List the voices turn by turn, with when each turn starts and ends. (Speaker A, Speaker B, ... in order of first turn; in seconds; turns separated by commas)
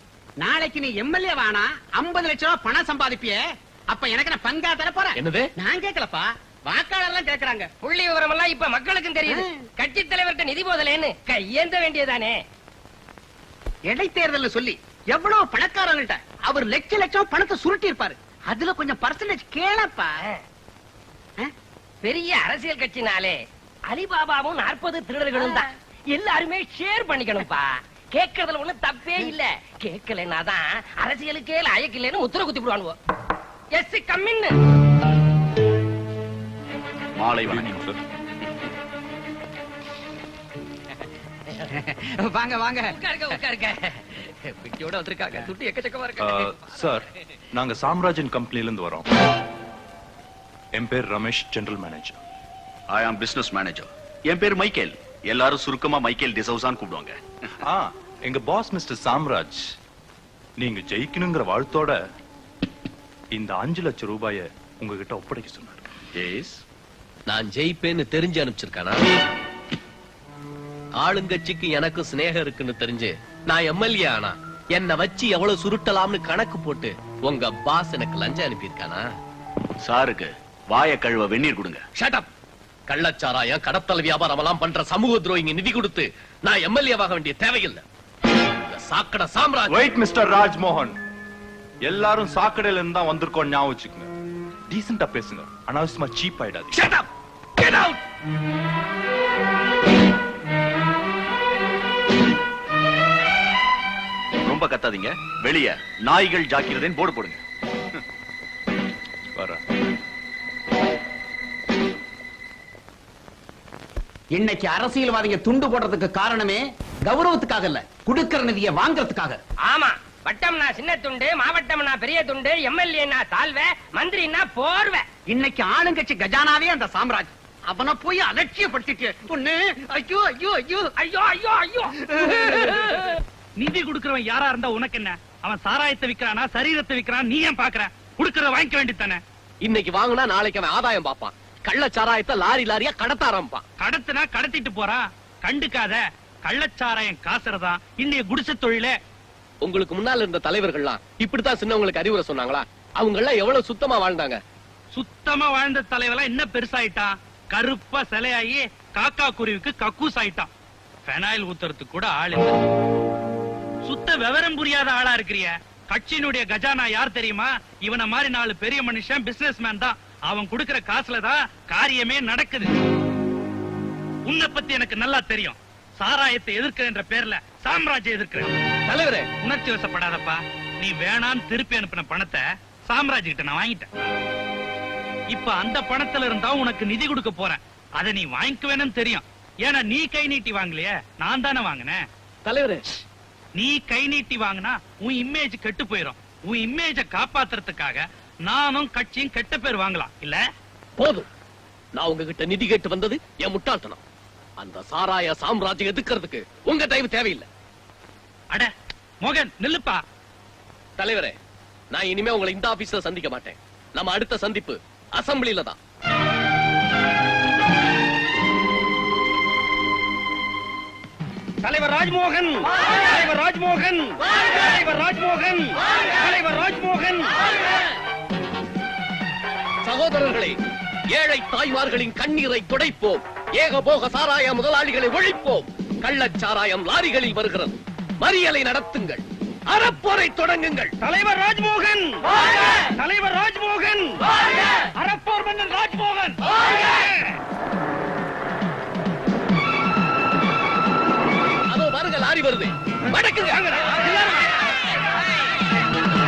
Speaker A: 0.4-3.4, Speaker A: 3.9-7.7, Speaker B: 5.2-5.5, Speaker C: 7.8-12.4, Speaker A: 13.9-20.1, Speaker C: 22.0-33.0, Speaker C: 33.7-34.6, Speaker D: 37.1-37.8, Speaker E: 37.4-38.0, Speaker A: 41.8-43.0, Speaker C: 42.9-46.4, Speaker E: 46.2-49.1, Speaker E: 50.7-52.2, Speaker D: 52.9-57.2, Speaker E: 57.6-59.6, Speaker E: 60.6-62.0, Speaker E: 63.3-65.8, Speaker D: 66.2-66.6, Speaker B: 67.3-69.0, Speaker B: 71.0-79.0, Speaker D: 79.8-81.8, Speaker B: 82.0-82.3, Speaker B: 82.9-87.8, Speaker B: 88.6-89.8, Speaker E: 89.7-90.9, Speaker E: 91.8-94.1, Speaker E: 94.7-96.8, Speaker B: 96.8-97.0, Speaker B: 97.6-98.0, Speaker D: 104.4-107.4, Speaker E: 109.3-109.6, Speaker A: 114.3-119.4, Speaker C: 119.7-125.0, Speaker A: 125.3-130.9, Speaker C: 131.0-133.0, Speaker A: 132.1-132.4, Speaker F: 133.6-139.2, Speaker B: 139.6-143.6, Speaker F: 143.8-148.9, Speaker B: 149.6-154.4, Speaker F: 154.9-160.5, Speaker F: 161.1-162.5, Speaker F: 163.8-172.7, Speaker F: 174.2-178.5, Speaker B: 178.9-179.3, Speaker F: 179.4-183.9, Speaker F: 185.3-192.0, Speaker B: 192.4-192.9, Speaker F: 193.6-200.4, Speaker B: 201.0-201.2, Speaker B: 201.9-204.0, Speaker B: 204.6-207.4, Speaker F: 209.2-210.0, Speaker B: 211.0-211.3, Speaker B: 211.9-215.8, Speaker G: 221.6-227.3, Speaker B: 229.8-230.6, Speaker B: 231.1-240.9, Speaker F: 241.0-242.0, Speaker F: 243.0-244.2, Speaker F: 245.0-246.3, Speaker B: 251.7-254.1